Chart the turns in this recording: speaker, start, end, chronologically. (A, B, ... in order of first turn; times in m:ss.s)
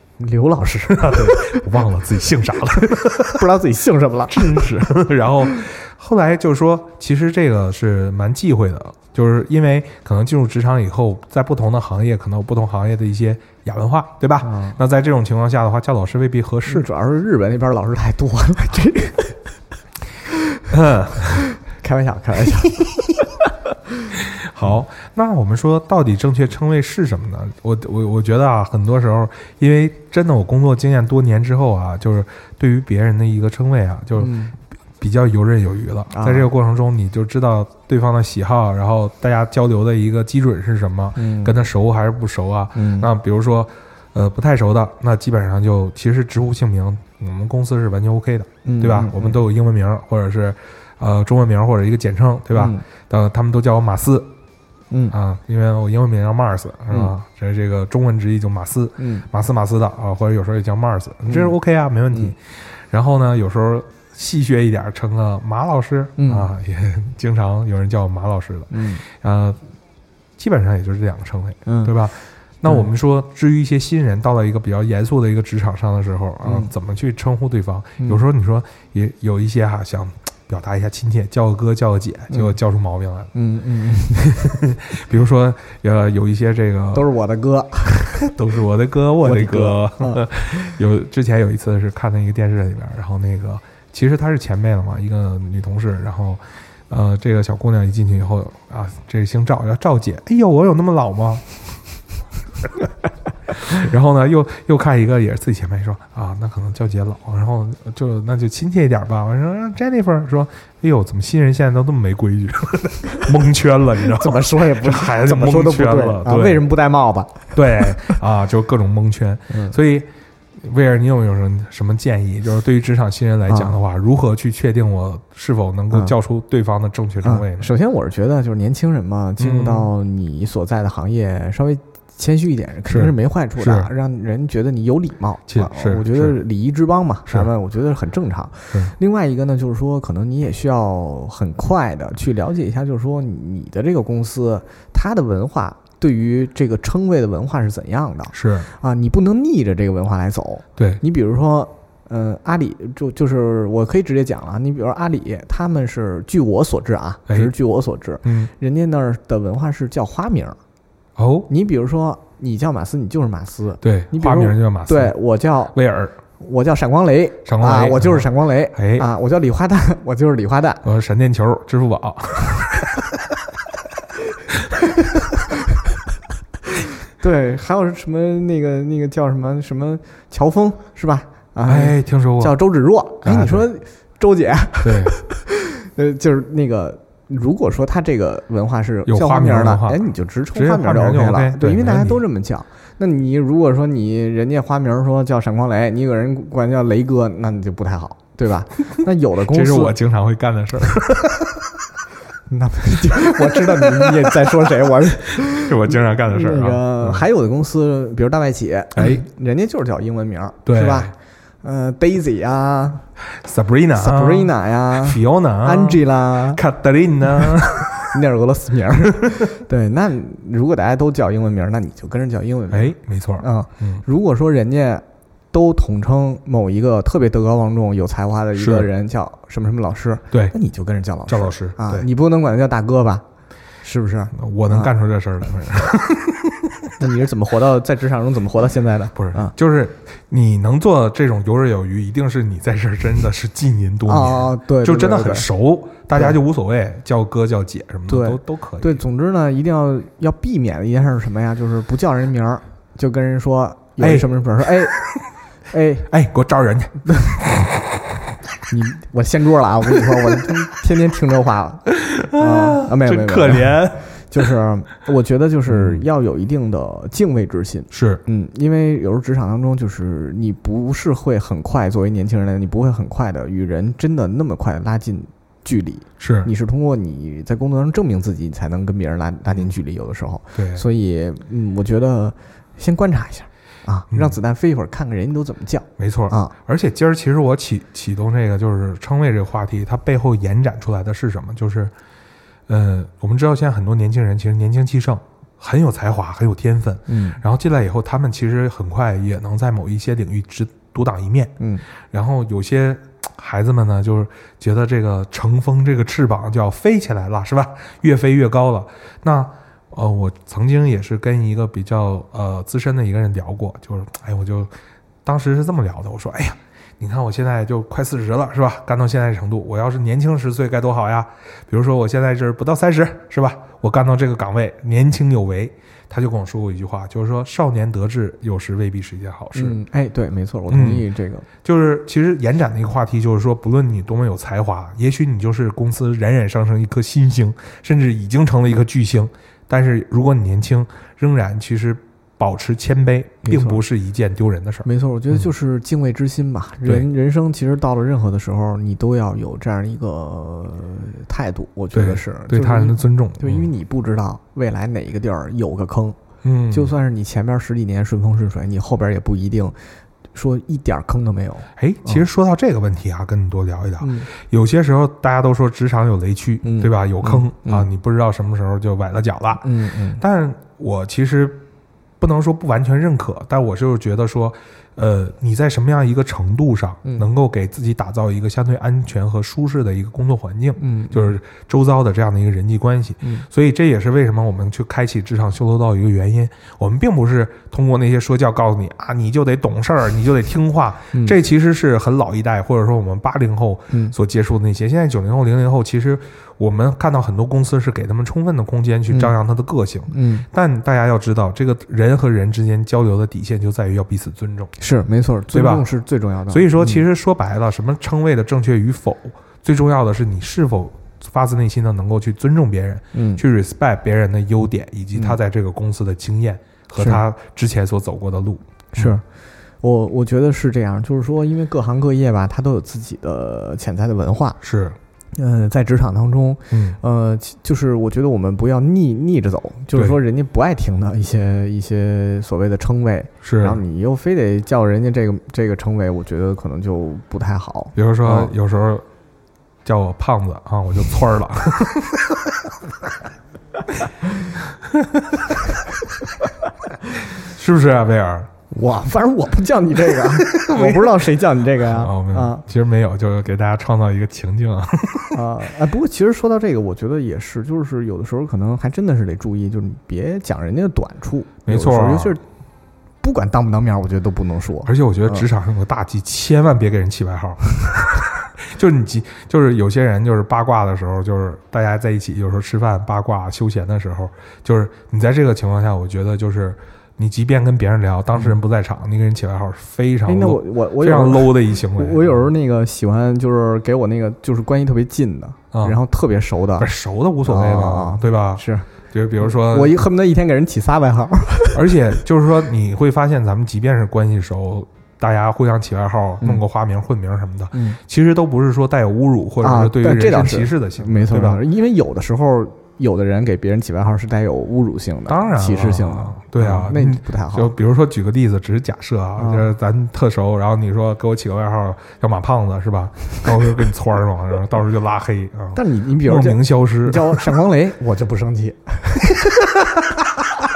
0:00.2-0:01.7 A
0:00.9-0:03.5 B
0:02.8-0:04.7 A
0:04.3-0:16.9 B
0:14.4-0:14.8 A
0:16.7-0:19.4 A
0:20.7-0:21.5 B
0:21.4-0:23.2 A
0:24.1-0:34.4 B
0:34.2-0:34.6 A
0:35.0-0:54.3 B
0:36.1-0:36.5 A
0:41.2-0:41.6 A
0:42.8-0:43.1 A
0:48.6-0:49.4 A
0:52.5-0:52.8 A
0:54.9-0:55.2 A
0:55.1-1:09.6 B
0:59.0-0:59.3 A
1:01.3-1:01.6 A
1:06.2-1:06.5 A
1:08.7-1:09.0 A
1:10.4-1:23.3 B
1:11.6-1:11.9 A
1:16.4-1:16.7 A
1:22.3-1:22.6 A
1:23.3-1:24.6 A
1:24.3-1:27.1 B
1:26.9-1:28.2 A
1:28.1-1:41.8 B
1:29.2-1:30.3 A
1:43.5-1:56.6 B
1:54.0-1:58.1 A
1:57.6-2:07.7 B
1:59.5-1:59.8 A
2:03.5-2:03.7 A
2:07.2-2:40.6 A
2:09.4-2:09.9 B
2:12.9-2:13.9 B
2:15.5-2:16.4 B
2:28.3-2:28.7 B
2:38.2-2:38.5 B
2:41.2-2:41.5 B
2:41.5-2:45.8 A
2:43.8-2:45.2 B
2:45.7-2:46.2 B
2:46.4-2:50.8 A
2:47.4-2:49.1 B
2:50.8-2:53.2 B
2:57.2-3:20.0 A
3:01.7-3:02.6 B
3:03.2-3:03.6 B
3:04.8-3:05.2 B
3:09.0-3:12.2 B
3:19.5-3:21.7 B
3:22.5-3:33.0 A
3:23.2-3:27.2 B
3:29.0-3:29.2 B
3:30.7-3:31.1 B
3:33.3-3:38.0 B
3:34.0-3:36.6 A
3:37.9-3:53.2 A
3:42.7-3:44.0 B
3:48.6-3:48.9 B
3:51.3-3:52.1 B
3:53.8-3:54.9 A
3:54.3-3:56.9 B
3:57.0-3:59.5 A
3:59.2-4:09.0 B
4:04.0-4:05.5 A
4:08.1-4:15.0 A
4:14.0-4:15.2 B
4:15.7-4:16.1 A
4:16.1-4:17.7 B
4:18.7-4:46.5 A
4:20.1-4:20.5 B
4:22.0-4:24.0 B
4:25.7-4:26.0 B
4:27.9-4:28.2 B
4:36.2-4:36.5 B
4:40.6-4:40.8 B
4:44.1-4:44.4 B
4:46.0-4:51.9 B
4:52.7-5:14.7 B
4:57.1-4:57.4 A
5:15.2-5:29.8 B
5:29.5-5:31.5 A
5:30.7-5:31.1 B
5:31.6-5:44.9 B
5:43.4-5:43.8 A
5:44.8-5:56.2 A
5:51.9-5:53.7 B
5:56.4-5:56.9 B
5:56.7-5:59.8 A
6:00.3-6:02.2 A
6:01.8-6:11.6 B
6:04.0-6:04.3 A
6:06.6-6:07.9 A
6:09.6-6:10.2 A
6:12.2-6:44.7 B
6:20.8-6:21.3 A
6:23.2-6:23.5 A
6:40.1-6:40.5 A
6:44.8-6:47.0 A
6:45.5-6:45.9 B
6:46.5-6:59.2 B
6:53.1-6:53.4 A
6:58.9-6:59.2 A
6:59.8-7:04.6 A
7:04.6-7:05.0 B
7:05.4-7:18.5 A
7:06.7-7:07.0 B
7:13.4-7:13.8 B
7:18.0-7:19.1 B
7:19.8-7:22.7 B
7:24.8-7:25.5 B
7:27.4-7:28.5 B
7:28.7-7:32.6 A
7:30.2-7:31.3 B
7:31.8-7:35.4 B
7:35.3-7:42.4 A
7:41.7-7:42.3 B
7:43.2-7:45.5 A
7:44.8-8:02.5 B
8:00.3-8:06.9 A
8:05.7-8:06.0 B
8:06.8-8:10.0 B
8:07.4-8:08.9 A
8:09.4-8:11.9 A
8:11.7-8:21.6 B
8:17.7-8:18.0 A
8:19.6-8:27.7 A
8:25.3-8:37.6 B
8:29.4-8:29.7 A
8:35.7-8:39.7 A